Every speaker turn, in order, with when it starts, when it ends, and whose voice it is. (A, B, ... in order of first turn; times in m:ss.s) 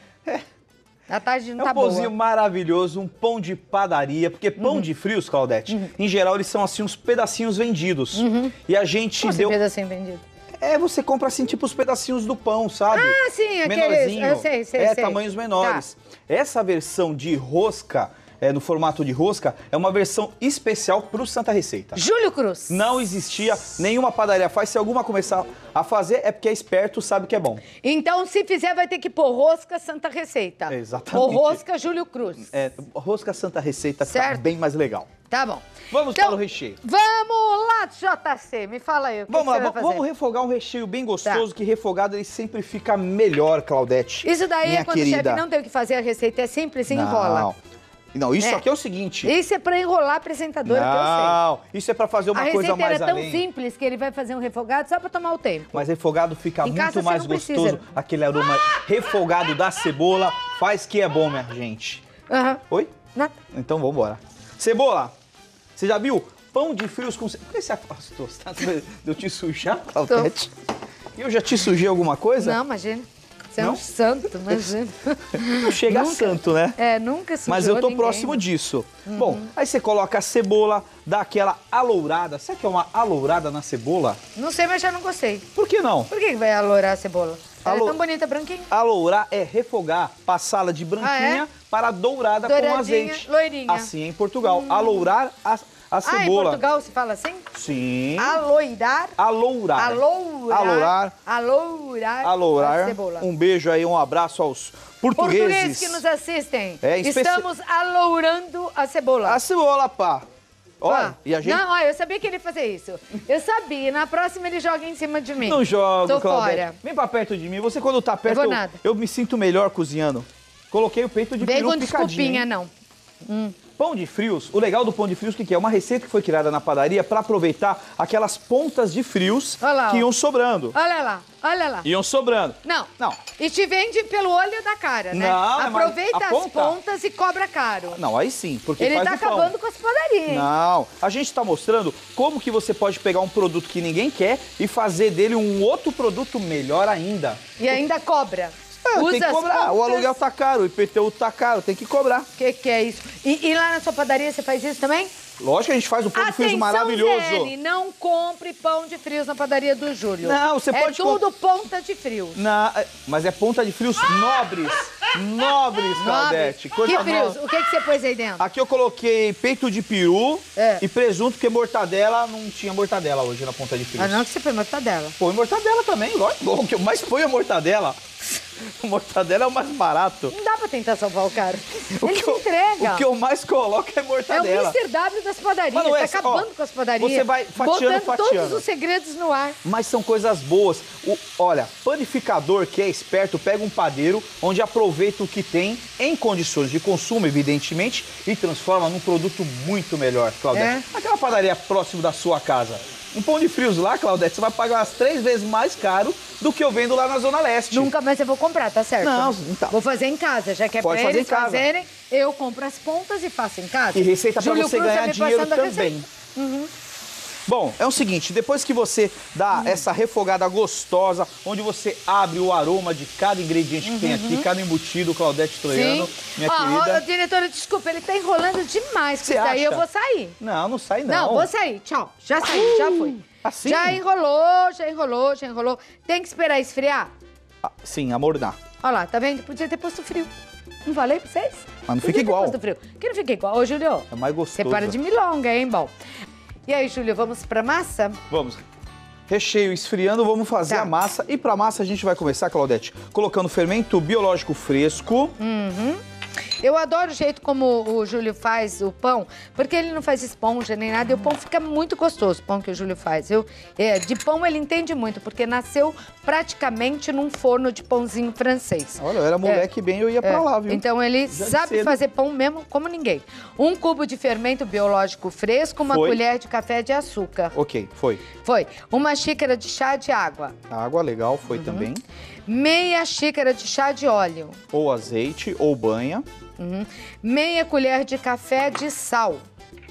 0:01.1-0:02.1 A
0:01.6-0:09.6 B
0:04.6-0:04.9 A
0:08.1-0:08.5 A
0:09.2-0:10.2 A
0:10.6-0:22.0 B
0:12.9-0:15.8 A
0:22.0-0:22.8 A
0:22.7-0:27.6 B
0:27.8-0:32.5 A
0:30.7-0:31.6 B
0:32.4-0:35.1 B
0:34.0-0:34.4 A
0:35.3-0:40.0 A
0:35.9-0:36.8 B
0:39.3-0:45.4 B
0:44.2-0:47.5 A
0:46.9-0:47.5 B
0:48.1-0:49.3 B
0:49.2-0:51.4 A
0:50.6-0:53.4 B
0:52.3-0:55.8 A
0:55.7-1:02.0 B
0:56.6-0:57.8 A
1:02.3-1:02.6 A
1:02.7-1:03.0 B
1:03.5-1:05.1 B
1:05.8-1:10.5 B
1:11.2-1:12.6 B
1:12.4-1:18.4 A
1:15.3-1:16.8 B
1:17.4-1:24.2 B
1:19.0-1:19.5 A
1:24.3-1:25.5 A
1:25.5-1:26.1 B
1:26.1-1:28.7 A
1:27.6-1:28.0 B
1:28.7-1:36.6 B
1:31.0-1:31.4 A
1:32.4-1:33.9 A
1:34.5-1:35.1 A
1:36.0-1:37.4 A
1:37.5-1:38.4 B
1:38.2-1:39.2 A
1:39.2-1:41.1 B
1:39.7-1:43.3 A
1:42.2-1:46.0 B
1:45.2-1:49.4 A
1:46.8-1:47.4 B
1:49.2-1:50.2 B
1:50.8-1:51.6 B
1:50.8-1:56.8 A
1:55.4-2:02.4 B
1:58.2-1:58.8 A
2:01.4-2:02.7 A
2:03.2-2:03.5 A
2:03.8-2:10.8 B
2:09.6-2:10.1 A
2:10.7-2:11.9 A
2:11.8-2:13.2 B
2:12.6-2:18.0 A
2:15.1-2:16.8 B
2:17.9-2:19.5 B
2:18.8-2:20.5 A
2:20.3-2:27.6 B
2:27.6-2:30.1 A
2:28.8-2:32.3 B
2:32.4-2:35.1 A
2:35.4-2:37.5 B
2:36.1-2:42.4 A
2:40.2-2:41.2 B
2:42.3-2:47.4 B
2:45.9-2:48.4 A
2:48.4-2:54.2 B
2:50.6-2:50.8 A
2:54.0-2:55.2 A
2:55.2-2:58.0 B
2:58.8-3:00.3 B
3:00.3-3:03.0 A
3:01.9-3:04.8 B
3:04.3-3:09.6 A
3:05.7-3:08.6 B
3:09.6-3:27.9 B
3:20.5-3:20.8 A
3:27.7-3:36.7 A
3:29.0-3:29.8 B
3:30.8-3:31.7 B
3:33.9-3:36.0 B
3:37.5-3:47.0 B
3:39.5-3:39.8 A
3:43.8-3:44.5 A
3:45.7-3:50.4 A
3:49.2-3:49.8 B
3:50.4-3:51.5 B
3:51.1-3:57.1 A
3:52.4-3:54.0 B
3:57.6-3:58.6 B
3:58.8-4:00.3 A
4:00.8-4:05.9 A
4:01.9-4:02.6 B
4:04.1-4:05.0 B
4:06.7-4:08.2 A
4:08.3-4:08.6 B
4:09.3-4:15.4 B
4:15.4-4:16.0 A
4:16.6-4:29.6 A
4:29.0-4:32.0 B
4:30.2-4:37.5 A
4:35.9-4:36.2 B
4:37.5-4:38.2 B
4:38.4-4:40.5 A
4:40.7-4:42.0 B
4:41.5-4:41.9 A
4:42.5-4:44.6 A
4:44.7-4:46.2 B
4:46.6-4:49.4 A